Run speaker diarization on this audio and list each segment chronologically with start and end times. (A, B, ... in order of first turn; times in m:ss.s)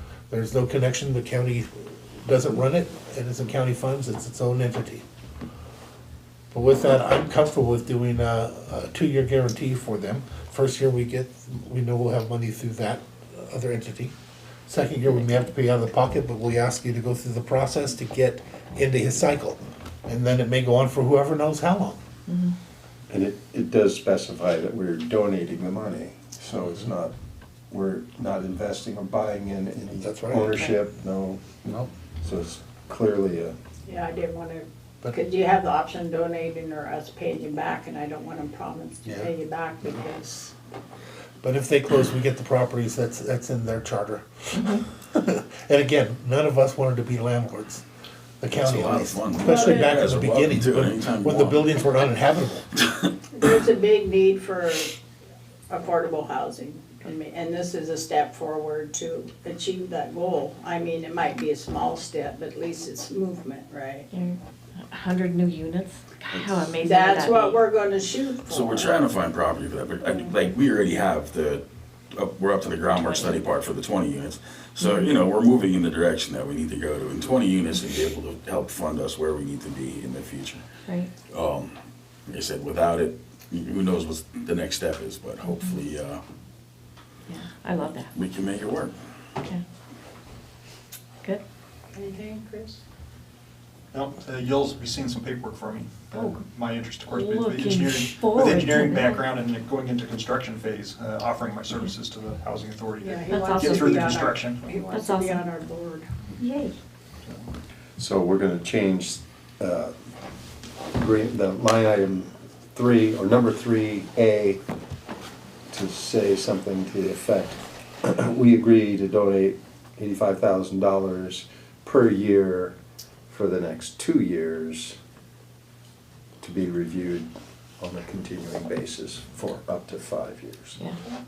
0:00.3-0:05.0 A
0:06.5-0:14.1 A
0:14.7-0:22.0 A
0:22.3-0:22.5 B
0:23.1-0:27.1 C
0:27.7-0:33.6 C
0:30.0-0:30.6 A
0:33.9-0:40.5 D
0:41.4-0:47.8 A
0:44.5-0:44.8 B
0:48.4-0:52.6 A
0:48.5-0:51.7 E
0:49.4-0:49.9 D
0:53.3-0:54.9 D
0:55.7-1:04.1 D
1:04.1-1:04.4 B
1:04.9-1:07.6 B
1:06.8-1:09.1 D
1:08.4-1:20.6 E
1:13.0-1:13.4 B
1:14.8-1:15.1 B
1:20.8-1:21.1 B
1:21.3-1:21.7 E
1:22.3-1:26.2 E
1:25.4-1:25.8 B
1:27.3-1:28.1 B
1:28.1-1:28.9 E
1:31.9-1:32.8 D
1:33.9-1:44.8 F
1:36.1-1:36.4 B
1:37.1-1:39.2 B
1:43.0-1:46.1 D
1:43.3-1:44.1 B
1:44.8-1:45.4 B
1:46.4-1:46.7 B
1:48.0-1:49.9 C
1:50.9-1:54.6 C
1:55.7-2:02.8 C
2:03.3-2:05.0 C
2:06.4-2:07.3 C
2:07.8-2:10.8 C